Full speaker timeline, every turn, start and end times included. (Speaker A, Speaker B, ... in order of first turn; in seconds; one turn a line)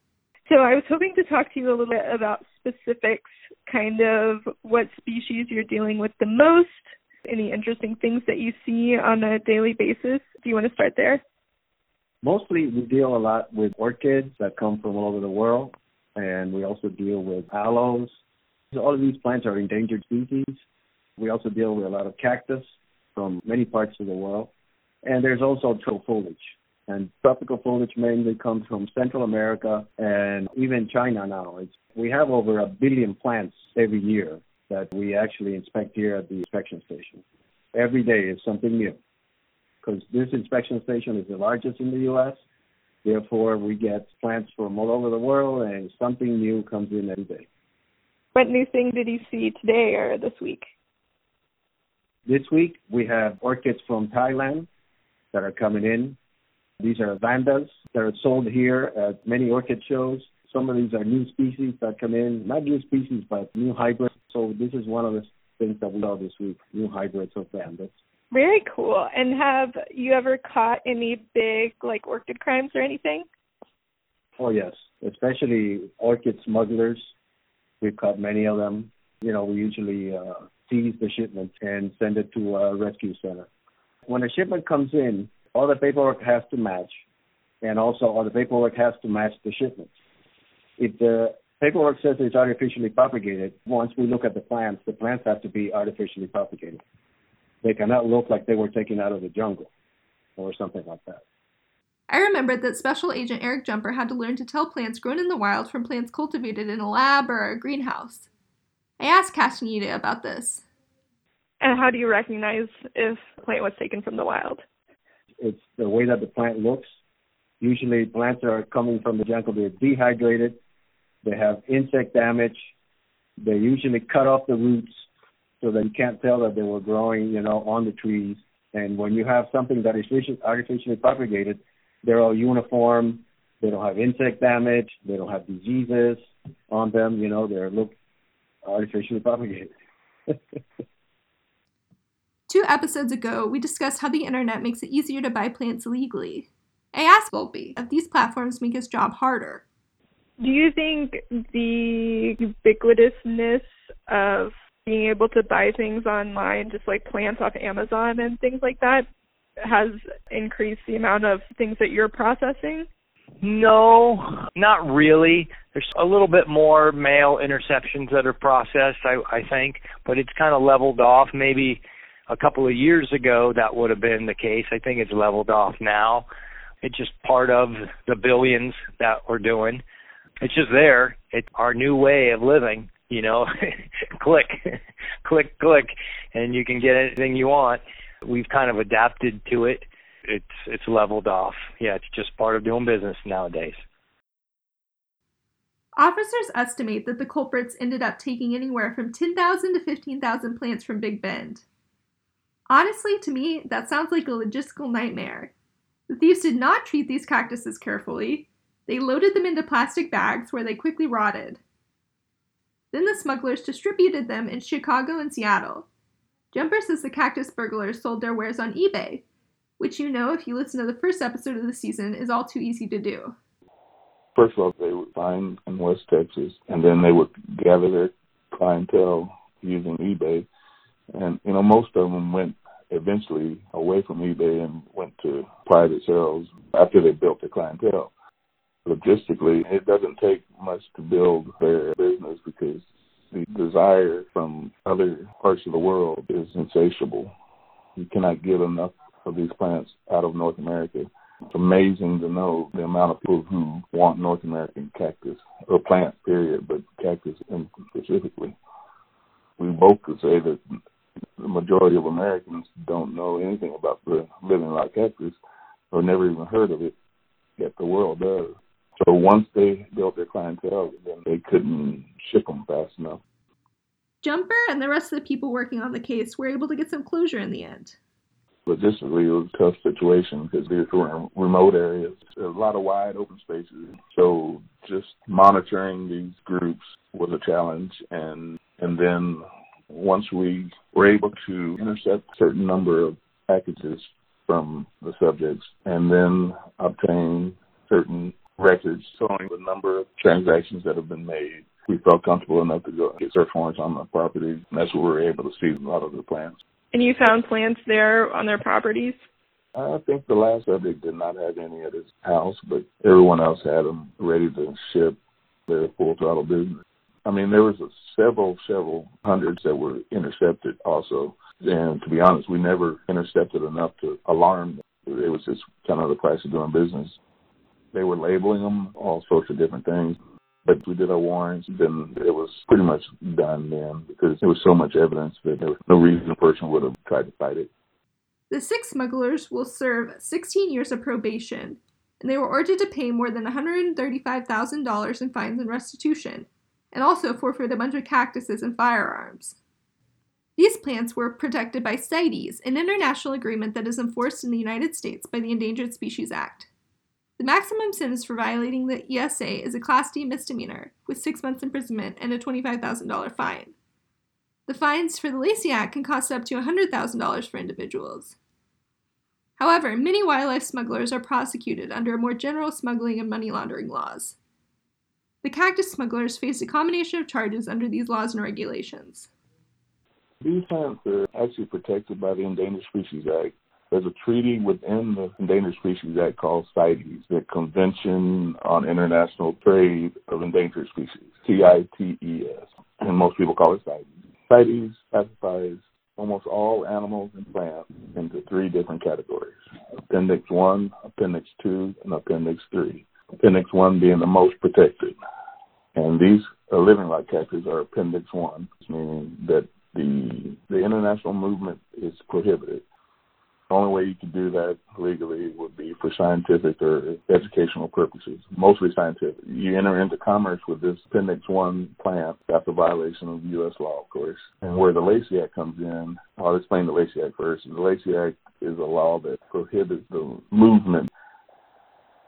Speaker A: 0.5-11.2
Speaker B: 12.2-18.1
Speaker B: 18.7-20.6
Speaker B: 21.2-24.5
Speaker B: 25.0-37.2
Speaker B: 37.7-39.0
Speaker B: 39.8-42.4
Speaker B: 43.0-47.5
Speaker A: 48.3-50.6
Speaker B: 52.2-54.7
Speaker B: 55.3-56.2
Speaker B: 56.8-67.9
Speaker A: 68.3-73.2
Speaker B: 74.4-77.1
Speaker B: 77.8-83.5
Speaker B: 84.1-86.9
Speaker B: 87.6-89.9
Speaker B: 90.8-96.8
Speaker B: 97.6-99.7
Speaker B: 100.4-101.2
Speaker C: 102.1-108.3
Speaker C: 109.0-110.6
Speaker A: 111.6-114.6
Speaker B: 115.4-116.8
Speaker B: 117.6-120.6
Speaker B: 121.2-122.6
Speaker B: 123.4-124.9
Speaker B: 125.6-137.9
Speaker B: 138.6-139.7
Speaker B: 140.3-140.6
Speaker C: 142.5-149.6
Speaker A: 150.4-159.1
Speaker A: 159.6-162.9
Speaker D: 163.4-176.3
Speaker D: 176.8-179.8
Speaker D: 180.4-193.8
Speaker C: 195.9-201.6
Speaker C: 202.7-205.5
Speaker C: 206.1-211.6
Speaker C: 212.9-215.9
Speaker C: 216.5-219.2
Speaker C: 219.8-223.3
Speaker E: 224.3-230.5
Speaker E: 231.1-238.1
Speaker E: 238.8-247.3
Speaker E: 248.0-258.6
Speaker E: 259.6-260.6
Speaker E: 261.4-265.4
Speaker E: 265.9-266.9
Speaker E: 267.6-273.2
Speaker C: 274.2-278.0
Speaker E: 278.7-306.5
Speaker A: 306.9-309.1
Speaker E: 309.8-315.2
Speaker E: 315.7-327.2
Speaker E: 327.9-337.7
Speaker C: 338.5-349.6
Speaker C: 350.6-356.7
Speaker C: 357.4-363.7
Speaker C: 364.7-368.4
Speaker C: 369.6-374.4
Speaker C: 375.4-379.3
Speaker E: 380.4-399.6
Speaker E: 400.1-405.1
Speaker E: 405.9-412.8
Speaker E: 413.7-431.1